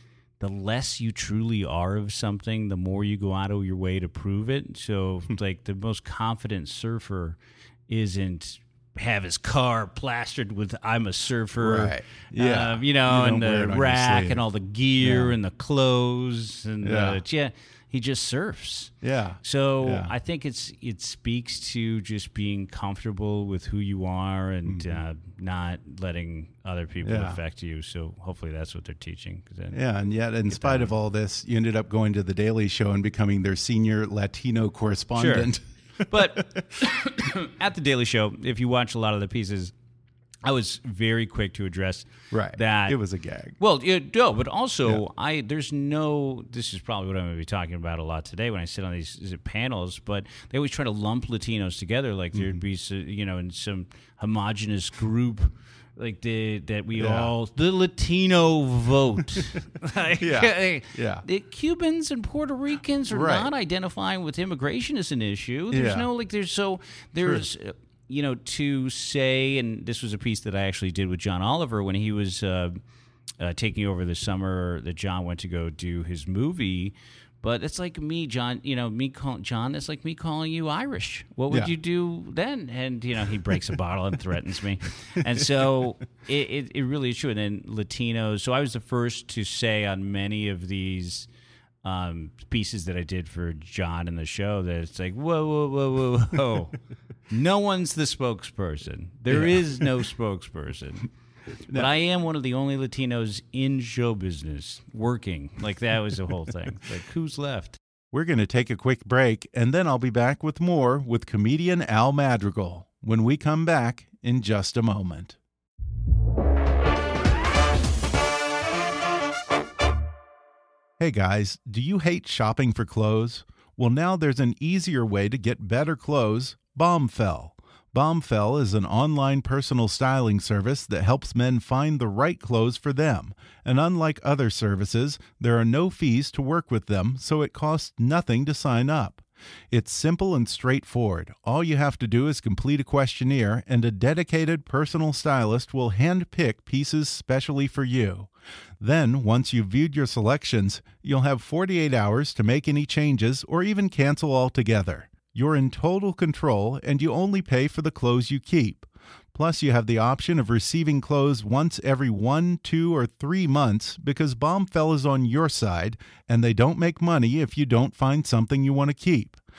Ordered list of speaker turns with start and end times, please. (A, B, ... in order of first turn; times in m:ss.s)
0:00.4-0:29.8 A
0:11.6-0:14.4 B
0:15.0-0:15.4 B
0:16.8-0:17.2 B
0:19.0-0:20.1 B
0:24.6-0:25.0 B
0:27.0-0:27.4 B
0:29.7-0:35.6 B
0:30.5-0:30.9 A
0:35.2-0:39.7 A
0:36.1-0:36.6 B
0:40.4-0:43.0 A
0:42.3-0:43.5 B
0:43.6-1:12.8 A
0:52.3-0:52.6 B
0:57.0-0:57.3 B
1:00.2-1:01.2 B
1:03.1-1:03.5 B
1:05.7-1:06.1 B
1:13.4-1:31.3 A
1:31.8-1:36.8 A
1:37.3-1:41.1 A
1:39.3-1:39.8 B
1:41.7-1:47.8 A
1:48.1-1:55.4 B
2:01.0-2:49.4 B